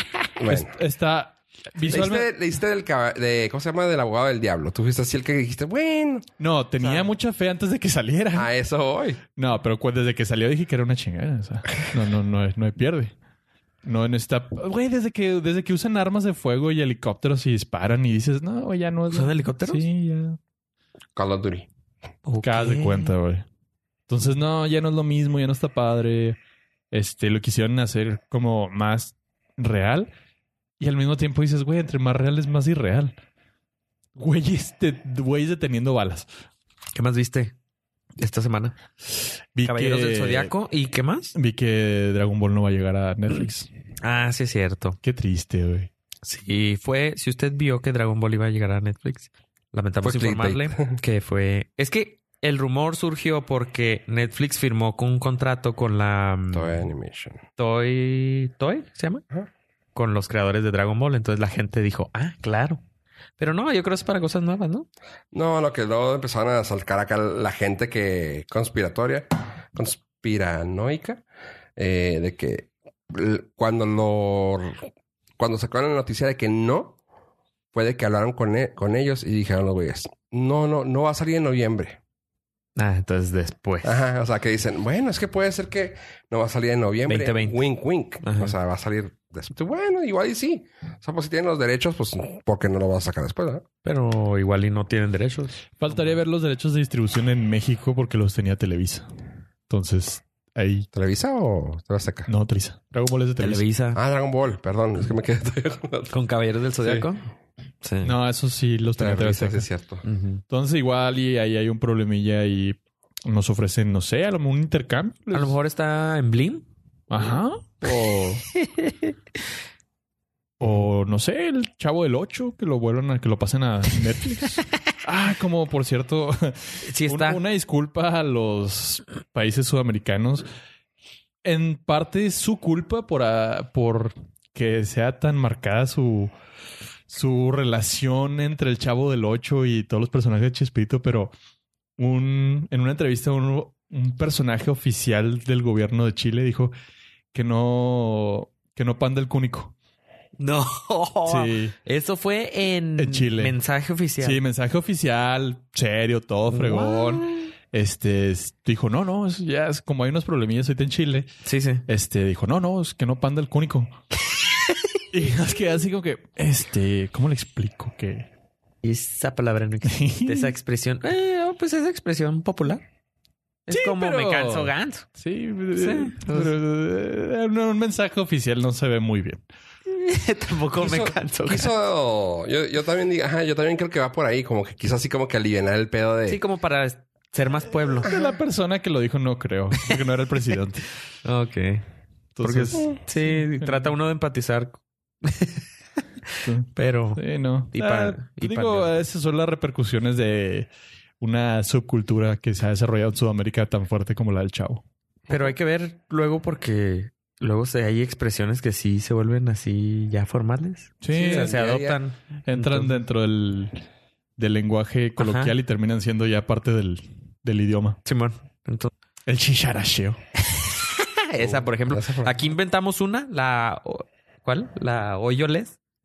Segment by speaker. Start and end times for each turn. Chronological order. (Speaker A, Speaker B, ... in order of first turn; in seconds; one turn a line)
Speaker A: 0.4-0.7
Speaker B: 0.5-2.3
Speaker A: 1.8-6.3
Speaker B: 6.4-8.5
Speaker A: 6.8-7.1
Speaker A: 8.3-9.2
Speaker B: 9.3-13.1
Speaker B: 13.8-20.4
Speaker C: 19.1-19.9
Speaker A: 21.1-21.6
Speaker C: 22.2-23.1
Speaker B: 22.4-23.4
Speaker B: 24.1-26.4
Speaker B: 26.9-30.1
Speaker B: 30.8-33.1
Speaker B: 34.1-36.3
Speaker C: 36.9-37.5
Speaker C: 38.2-38.8
Speaker B: 39.5-40.5
Speaker C: 39.6-41.3
Speaker B: 41.3-43.7
Speaker C: 44.0-45.0
Speaker B: 45.0-45.9
Speaker C: 46.2-56.9
Speaker A: 50.0-51.0
Speaker A: 56.5-57.4
Speaker C: 57.6-59.2
Speaker C: 59.9-62.8
Speaker C: 63.4-64.9
Speaker A: 65.3-71.2
Speaker A: 71.8-74.8
Speaker A: 75.4-77.0
Speaker A: 77.7-82.0
Speaker C: 82.8-84.0
Speaker A: 83.8-93.6
Speaker C: 87.0-87.6
Speaker C: 88.2-88.5
Speaker C: 93.8-96.1
Speaker B: 95.8-99.1
Speaker B: 99.7-100.9
Speaker A: 100.9-102.3
Speaker B: 102.3-103.6
Speaker C: 103.4-104.0
Speaker A: 103.9-106.1
Speaker C: 106.1-107.3
Speaker A: 106.8-107.1
Speaker C: 107.8-108.1
Speaker B: 108.0-109.7
Speaker A: 109.0-110.0
Speaker C: 110.0-110.4
Speaker B: 110.5-115.5
Speaker C: 115.3-116.6
Speaker B: 117.1-118.4
Speaker C: 118.5-119.2
Speaker B: 120.6-130.5
Speaker C: 126.8-127.4
Speaker B: 131.4-136.3
Speaker B: 137.1-141.3
Speaker B: 142.0-146.7
Speaker B: 147.3-149.7
Speaker C: 150.4-154.4
Speaker B: 151.3-151.7
Speaker B: 153.0-153.6
Speaker B: 154.2-161.3
Speaker C: 156.5-157.5
Speaker C: 161.4-161.8
Speaker B: 161.9-163.9
Speaker C: 164.6-165.0
Speaker B: 165.1-168.3
Speaker C: 168.8-172.8
Speaker B: 169.8-170.5
Speaker C: 173.7-175.1
Speaker B: 173.7-179.4
Speaker C: 175.7-176.5
Speaker C: 179.9-181.7
Speaker A: 180.8-186.4
Speaker C: 186.3-188.1
Speaker B: 188.0-190.8
Speaker A: 188.1-188.3
Speaker C: 191.2-191.8
Speaker B: 192.3-193.9
Speaker C: 192.4-195.6
Speaker C: 196.3-198.9
Speaker B: 196.4-204.8
Speaker A: 205.3-205.5
Speaker C: 205.3-212.9
Speaker B: 211.0-211.5
Speaker A: 211.1-212.0
Speaker B: 212.4-213.8
Speaker B: 214.4-218.0
Speaker C: 215.2-215.5
Speaker C: 218.0-218.9
Speaker B: 219.2-220.2
Speaker C: 220.4-225.8
Speaker A: 221.3-222.3